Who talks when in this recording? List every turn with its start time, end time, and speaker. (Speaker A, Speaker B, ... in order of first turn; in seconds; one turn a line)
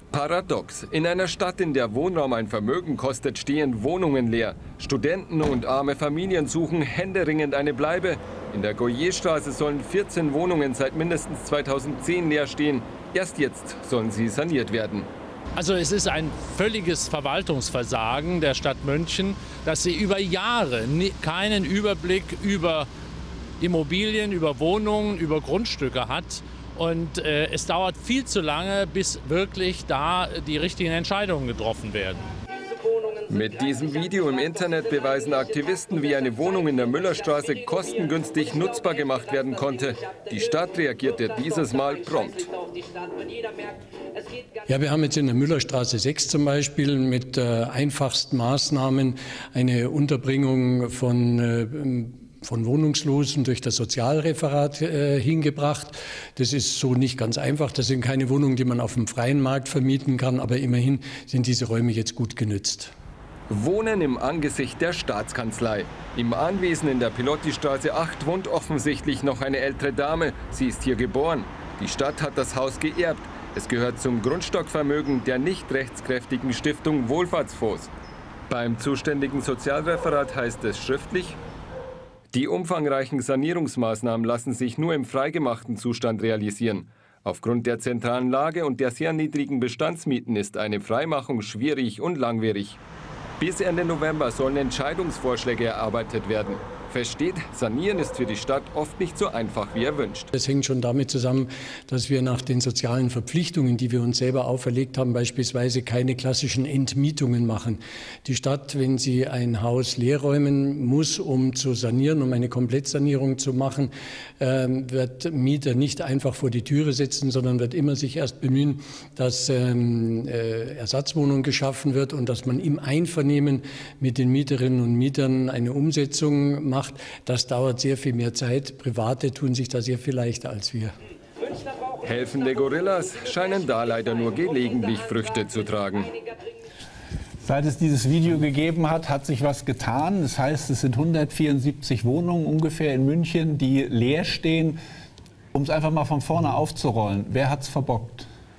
Speaker A: 0.1-15.1
Speaker B: 15.6-22.9
Speaker B: 23.6-32.2
Speaker A: 33.3-42.5
Speaker C: 44.7-62.9
Speaker A: 63.5-77.9
Speaker A: 78.5-81.4
Speaker A: 82.3-92.8
Speaker A: 93.4-100.3
Speaker C: 100.3-130.9
Speaker A: 132.0-136.2
Speaker D: 137.4-144.8
Speaker D: 145.5-148.3